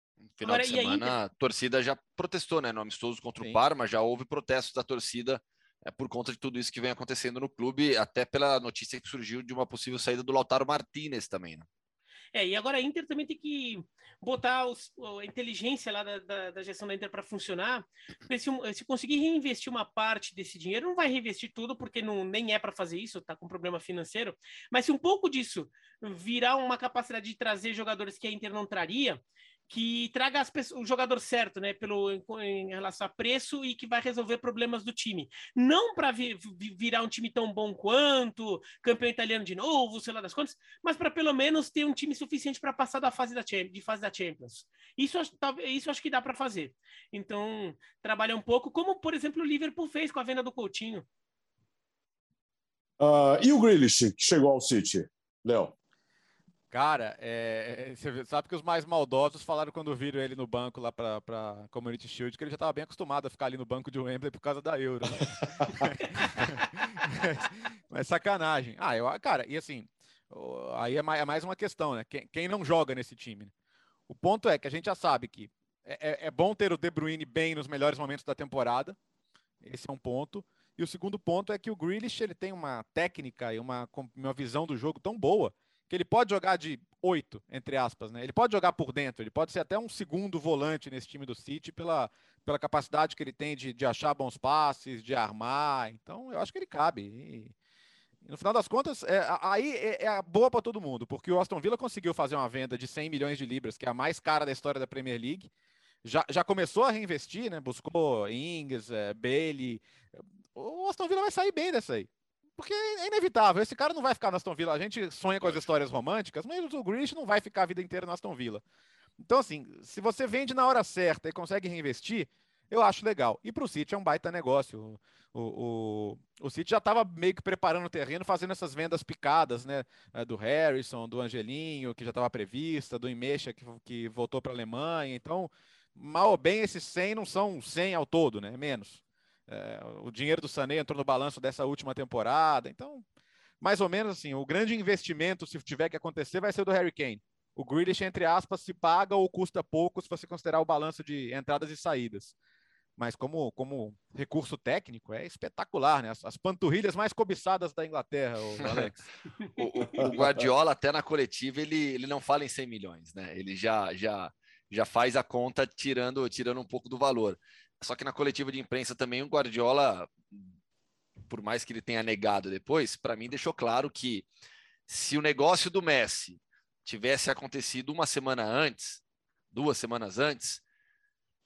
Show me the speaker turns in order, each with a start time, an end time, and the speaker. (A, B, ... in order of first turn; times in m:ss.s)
0:00.4-0:11.7 A
0:00.4-0:01.2 B
0:12.3-0:51.0 B
0:53.0-0:55.7 C
0:56.7-1:13.5 D
1:14.1-1:19.0 D
1:19.6-1:37.5 D
1:38.2-1:45.5 D
1:46.0-1:58.6 D
1:55.4-1:55.7 A
1:59.2-2:23.0 D
2:23.6-2:32.3 D
2:33.0-2:39.0 D
2:38.6-2:38.9 A
2:39.5-2:40.0 B
2:39.6-2:50.5 A
2:40.0-2:40.5 C
2:51.3-2:54.3 A
2:54.9-3:00.6 A